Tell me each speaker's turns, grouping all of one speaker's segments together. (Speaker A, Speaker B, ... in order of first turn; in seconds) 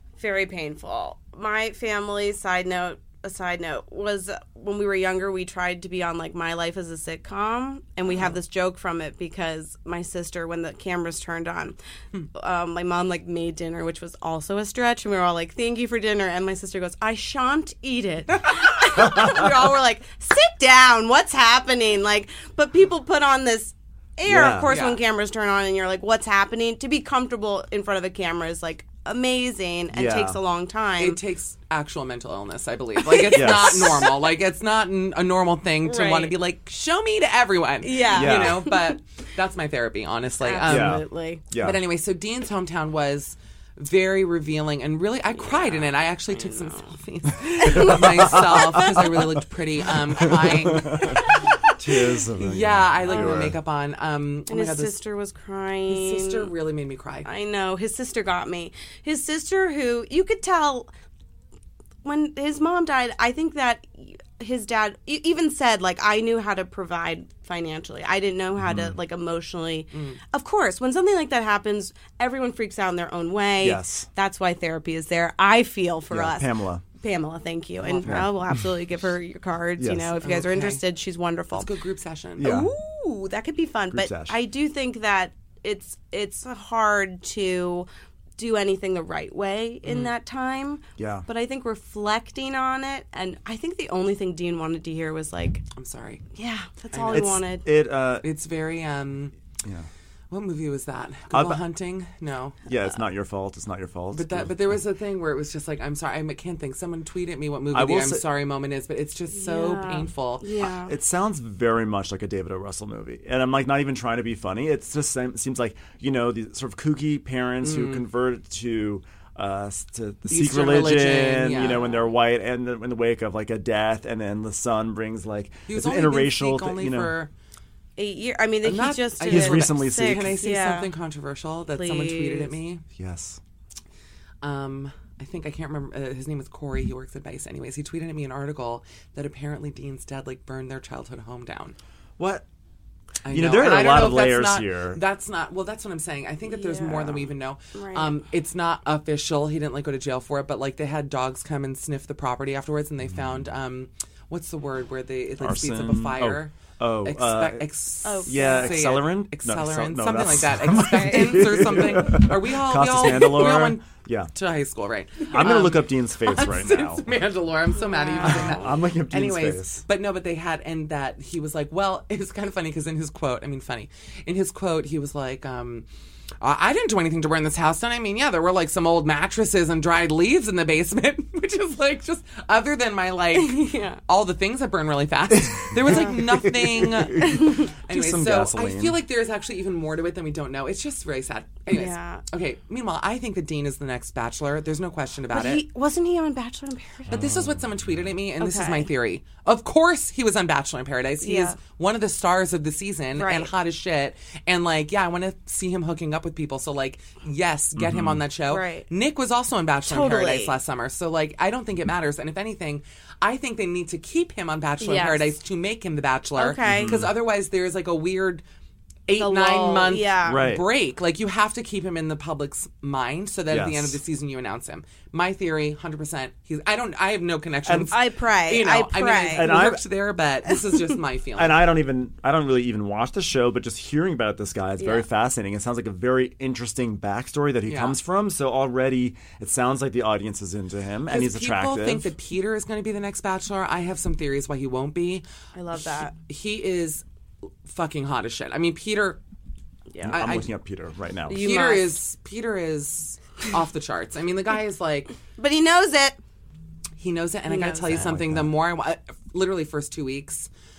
Speaker A: 0.2-11.8, 12.3-31.2, 33.0-33.9, 35.8-36.4, 37.8-39.0, 40.4-41.4, 45.4-49.2, 50.8-51.6, 53.1-53.5, 54.5-56.5, 57.2-60.9, 62.0-81.7, 82.4-87.9, 88.4-95.6, 96.3-97.7, 109.3-111.0, 121.7-122.0, 128.0-130.9, 131.7-132.6, 146.4-148.2, 158.1-158.9, 167.7-168.7, 183.3-184.0, 187.2-187.7, 191.7-192.2, 195.3-197.2, 198.4-198.9, 201.2-201.6, 203.2-203.5, 208.5-208.9, 209.9-210.6, 214.8-215.3, 216.4-217.1, 219.2-220.6, 227.9-229.6, 234.8-235.1, 245.5-246.1, 249.9-250.3, 251.3-252.0, 255.4-256.2, 257.5-258.1
Speaker B: 19.0-19.4, 24.3-24.7, 29.9-30.4, 33.3-34.0, 38.1-38.6, 40.6-41.8, 47.8-48.2, 48.7-49.2, 50.2-51.2, 51.8-53.6, 68.6-69.0, 73.6-74.1, 76.1-76.8, 78.0-78.7, 79.8-80.2, 82.4-82.7, 83.9-84.4, 91.0-91.3, 97.1-98.3, 99.6-99.9, 101.3-101.6, 102.7-104.8, 107.7-108.2, 110.8-127.2, 129.2-130.4, 132.9-133.4, 142.2-142.4, 143.3-145.0, 153.1-153.4, 155.4-164.3, 165.3-167.1, 168.2-169.8, 185.3-189.0, 197.1-198.2, 207.8-208.2, 216.7-217.2, 220.2-220.7, 223.5-224.0, 227.7-227.9, 229.3-229.8, 231.4-242.1, 250.0-251.5, 258.0-258.5
Speaker C: 24.7-25.0, 31.0-51.2, 52.4-55.0, 55.9-57.3, 69.9-70.2, 77.8-78.3, 80.2-80.8, 81.5-82.5, 89.8-90.1, 95.8-96.2, 96.9-97.4, 98.2-99.3, 100.3-102.6, 104.1-110.5, 117.6-118.0, 120.3-121.9, 125.7-127.3, 128.6-132.8, 134.4-141.8, 143.2-175.9, 176.4-195.7, 197.1-218.4, 219.1-231.6, 237.7-238.0, 241.1-245.2, 246.1-247.1, 247.7-249.2, 250.0-250.5, 251.3-255.1, 257.0-260.5